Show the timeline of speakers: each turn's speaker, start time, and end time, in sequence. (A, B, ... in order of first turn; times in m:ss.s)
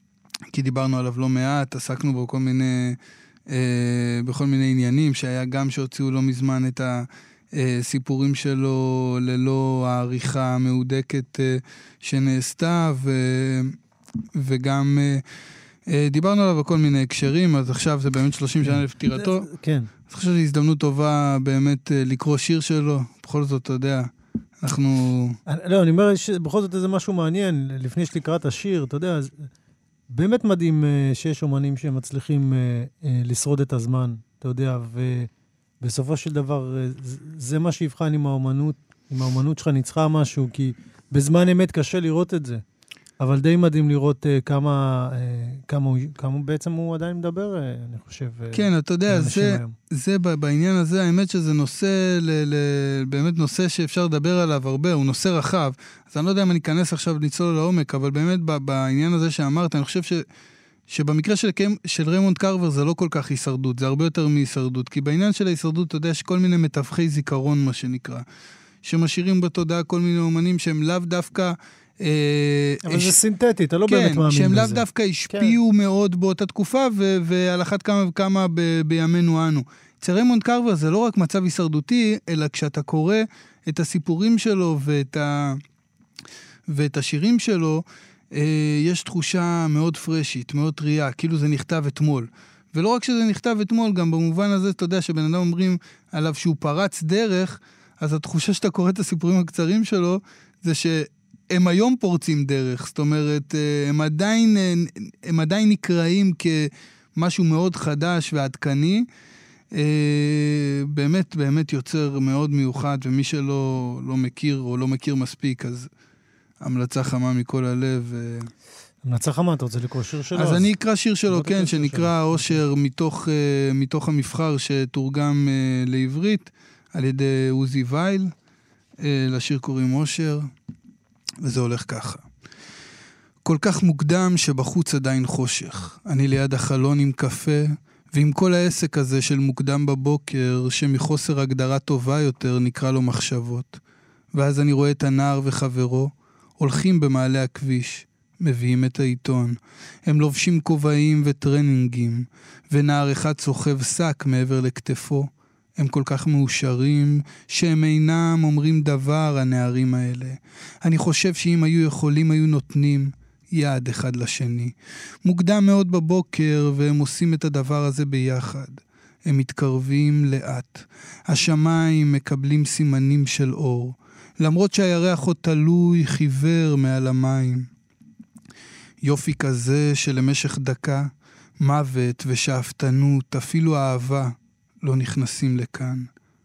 0:00.5-0:13.8 A
0:14.3-0:15.2 A
0:15.9-0:19.5 A
0:18.6-0:19.9 B
0:20.1-0:24.1 A
0:24.6-0:25.4 A
0:25.4-0:29.5 B
0:30.1-0:35.3 B
0:35.8-0:42.6 B
0:43.2-0:49.7 B
0:48.5-1:00.2 A
1:00.9-1:08.2 A
1:08.8-1:13.2 A
1:12.8-1:15.6 B
1:13.9-1:25.6 A
1:26.7-1:49.1 A
1:49.7-1:55.9 A
1:56.6-1:58.5 A
1:59.0-2:00.7 B
2:00.3-2:08.3 A
2:01.3-2:02.6 B
2:09.0-2:10.5 A
2:11.4-2:12.2 A
2:13.4-2:23.8 A
2:24.3-2:57.7 A
2:59.0-3:06.1 A